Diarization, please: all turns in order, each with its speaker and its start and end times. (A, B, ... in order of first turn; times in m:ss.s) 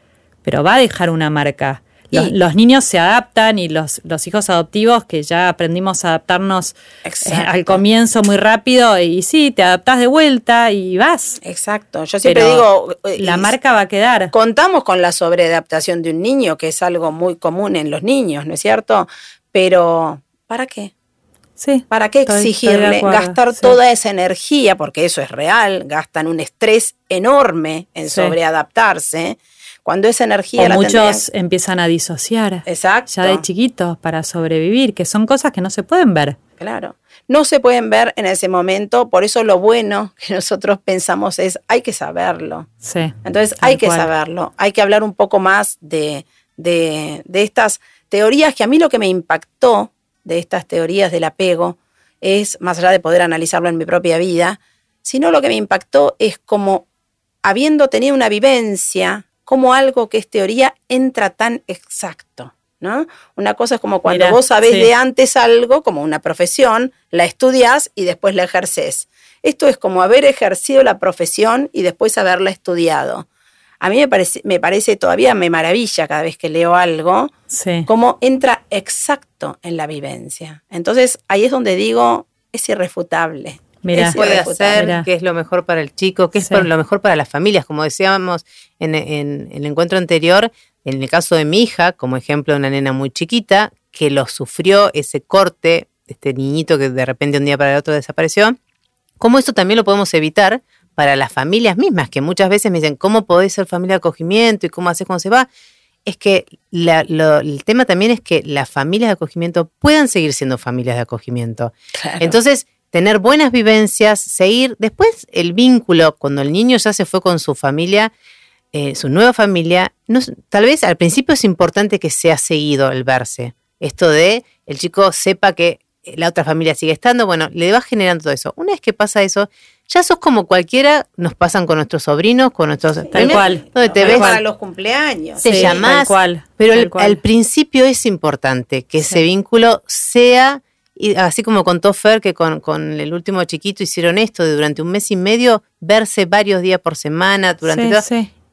0:00.4-0:11.4 A
0:07.0-0:07.8 B
0:11.4-0:13.5 B
0:12.2-0:12.6 A
0:13.2-0:14.3 A
0:14.3-0:20.9 B
0:21.6-0:23.8 A
0:21.9-0:31.2 B
0:28.0-0:28.3 A
0:30.6-0:36.4 A
0:32.6-0:33.4 B
0:36.6-0:42.7 B
0:42.8-0:44.1 A
0:43.2-0:56.8 B
0:57.4-1:13.3 B
1:04.1-1:04.9 A
1:13.8-1:17.3 B
1:17.5-1:17.9 A
1:17.9-1:24.8 B
1:23.8-1:24.2 A
1:24.1-1:38.6 C
1:24.7-1:25.1 A
1:26.4-1:26.7 A
1:39.2-1:45.5 C
1:46.0-1:58.1 C
1:52.0-1:52.3 B
1:58.7-2:14.4 C
2:13.1-2:16.0 B
2:13.1-2:14.4 A
2:15.4-2:28.0 C
2:15.4-2:17.2 A
2:27.6-2:28.3 A